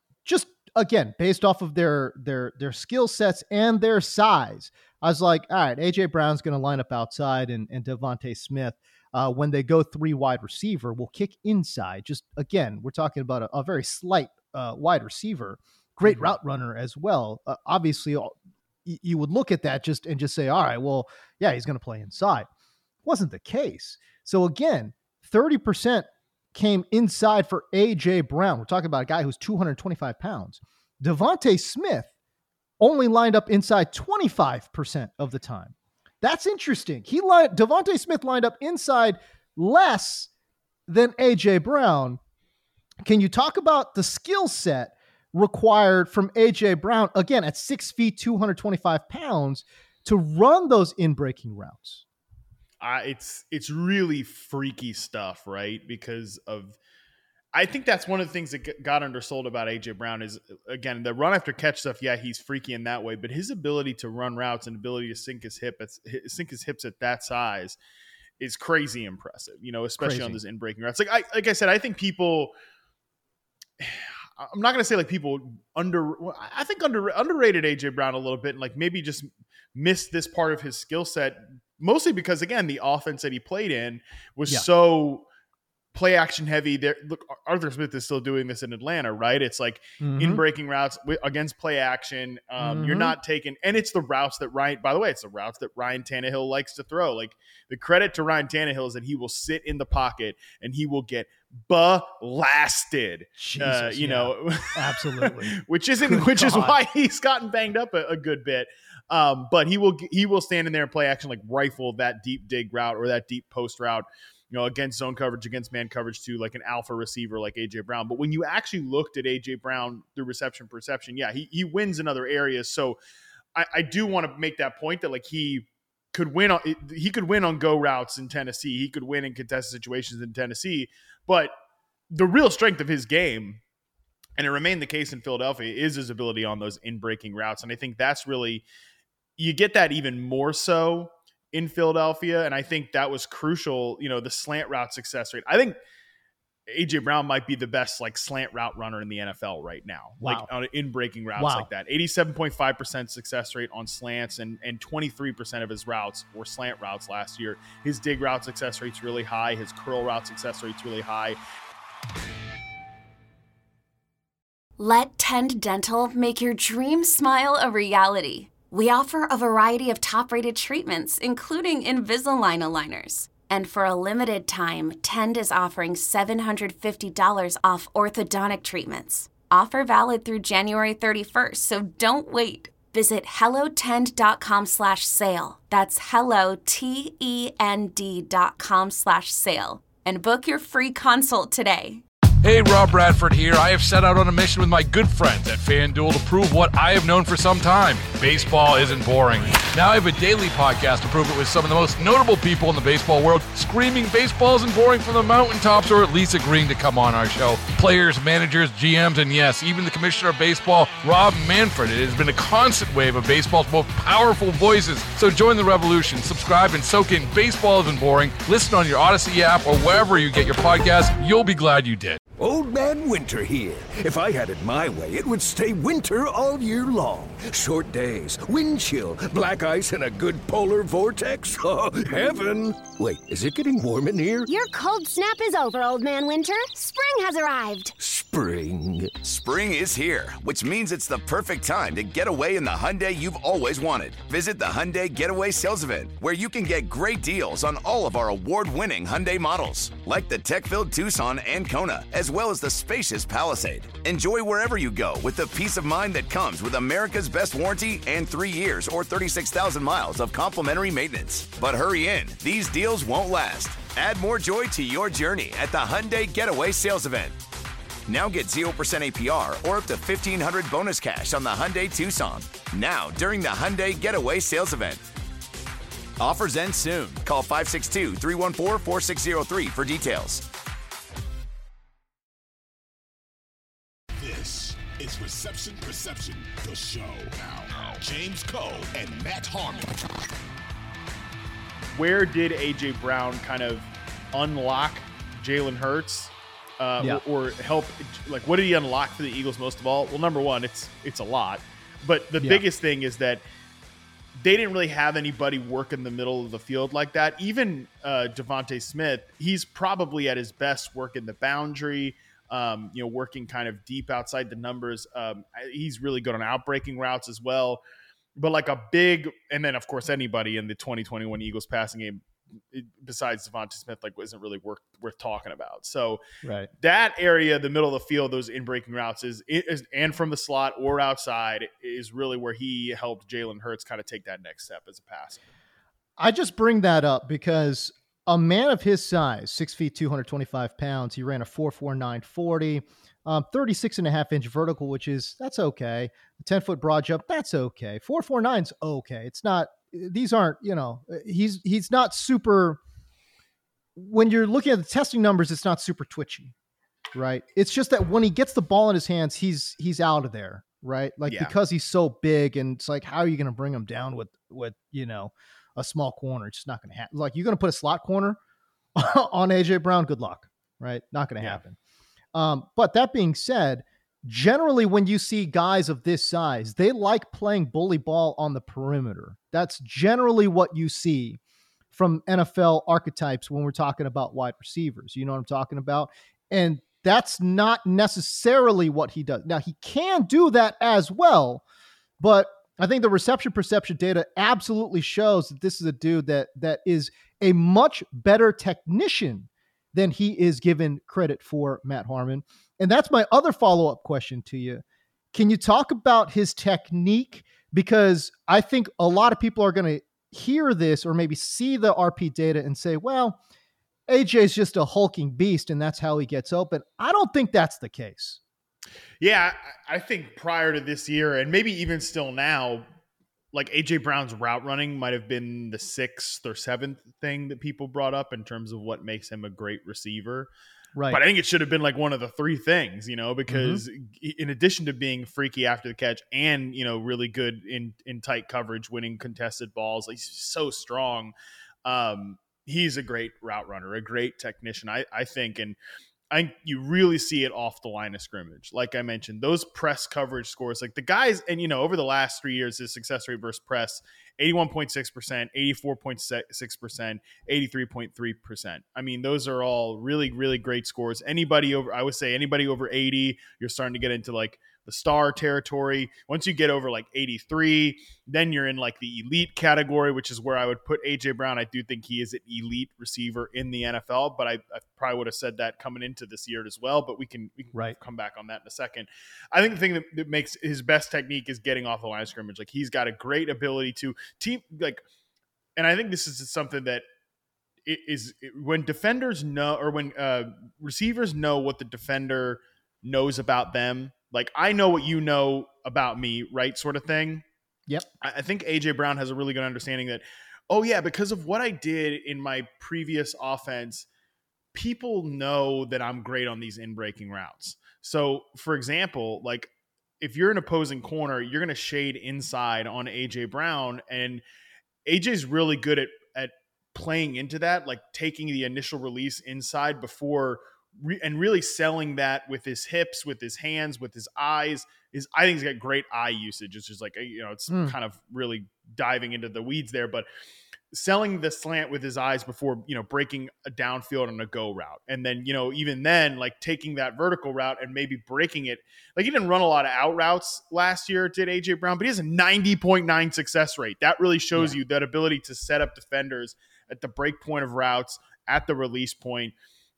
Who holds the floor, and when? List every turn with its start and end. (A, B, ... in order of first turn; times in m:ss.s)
0:00.2-0:22.5 A
0:16.1-0:16.3 B
0:23.0-0:32.1 A
0:32.8-0:40.3 A
0:40.9-0:42.2 A
0:43.0-0:52.0 A
0:52.8-0:56.8 B
0:57.5-1:07.8 B
1:08.4-1:12.5 B
1:10.0-1:10.4 A
1:13.8-1:25.2 B
1:25.9-2:03.0 B
1:30.0-1:30.4 A
1:32.6-1:33.2 A
1:43.4-1:46.8 A
2:03.5-2:11.5 B
2:12.1-2:13.6 B
2:14.4-2:18.6 B
2:19.4-2:25.8 B
2:26.7-2:41.4 B
2:30.2-2:30.5 A
2:31.4-2:31.7 A
2:44.8-3:12.0 C
3:12.4-3:42.2 D
3:42.4-3:54.5 E
3:54.5-3:57.9 F
3:58.0-3:59.3 E
3:59.2-4:27.4 G
4:28.1-4:35.0 G
4:36.2-4:40.4 G
4:44.2-4:50.0 H
4:51.9-5:03.4 B
5:04.4-5:17.8 B
5:18.4-5:22.2 B
5:22.7-5:26.2 B
5:26.4-5:26.7 A
5:26.8-5:35.4 B
5:36.2-5:52.8 A
5:54.0-5:56.5 A
5:57.1-6:08.4 A
6:01.3-6:01.5 B
6:09.0-6:11.8 A
6:12.3-6:21.4 A
6:21.9-6:31.6 A
6:32.2-6:53.4 A
6:54.1-6:58.4 A
6:59.2-7:02.8 B
7:03.5-7:10.5 B
7:10.9-7:11.2 A
7:11.1-7:21.3 B
7:13.5-7:13.8 A
7:21.8-7:25.8 B
7:26.3-8:05.0 B
8:05.8-8:07.0 B
8:07.8-8:17.4 B
8:18.2-8:24.0 B
8:24.7-8:29.7 B
8:30.2-8:34.4 B
8:35.0-8:50.3 B
8:47.7-8:48.0 A
8:50.9-9:09.5 B
9:04.5-9:04.8 A